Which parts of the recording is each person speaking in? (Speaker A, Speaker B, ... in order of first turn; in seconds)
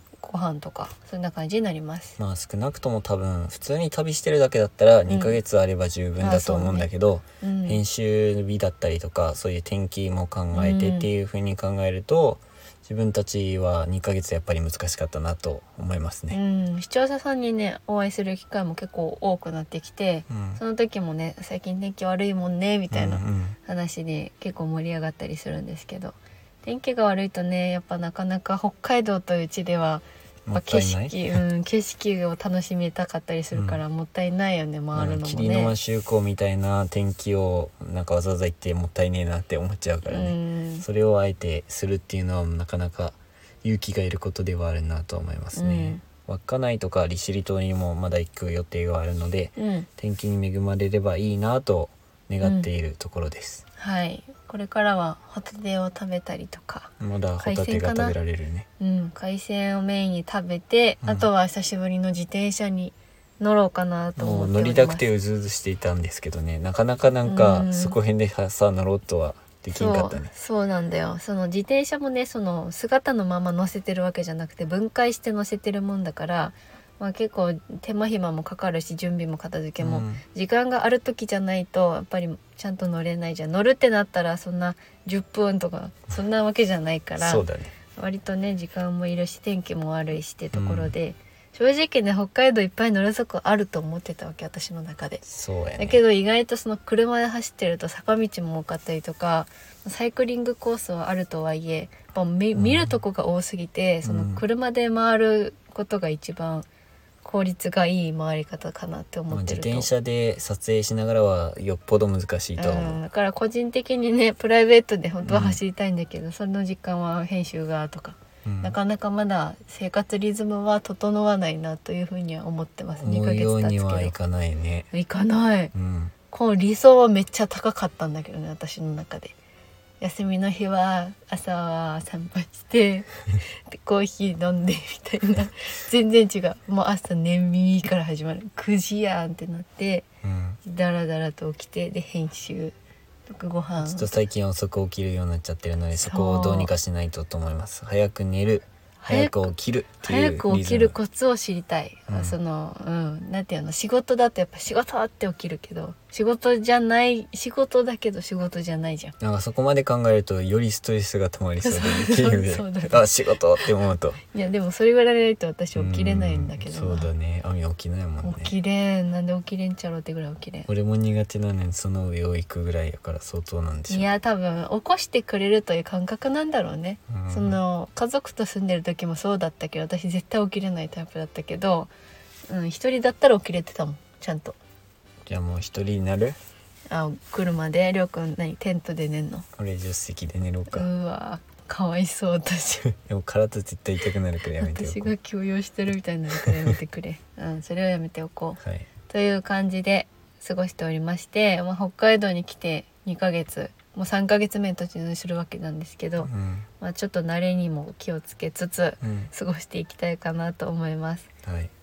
Speaker A: 0.2-2.2, 5.1-5.4, 6.2-6.9, 7.4-7.8, 10.5-11.1, 16.3-35.7, 40.0-40.8, 45.5-46.0, 49.6-49.9, 52.4-52.7, 53.8-58.2, 58.8-65.1, 67.2-68.0, 69.7-87.4, 87.9-95.2, 95.8-106.7, 107.2-109.9, 112.6-124.1, 124.9-125.7, 126.3-129.3, 130.0-140.1, 140.6-142.7, 143.3-144.2, 145.9-146.7, 149.0-159.1, 161.6-163.1, 164.3-167.1, 168.2-170.7, 173.9-181.9, 182.5-184.6, 186.9-189.4, 190.7-192.9, 194.6-211.3
Speaker B: 2.2-16.4, 20.3-20.6, 22.9-23.6, 30.4-31.4, 33.5-33.8, 34.9-53.6, 57.0-58.7, 64.2-70.3, 79.8-80.2, 87.2-87.7, 90.5-90.9, 95.2-96.0, 102.5-102.9, 104.0-104.4, 109.3-113.0, 115.2-115.6, 118.4-118.8, 123.0-124.9, 125.7-126.1, 140.2-140.6, 143.8-150.9, 152.1-152.4, 159.2-164.2, 165.7-168.5, 170.7-174.1, 177.1-177.6, 185.2-186.4, 189.6-190.9, 192.9-195.1, 198.6-198.9, 206.2-206.7, 209.0-209.3, 211.4-211.7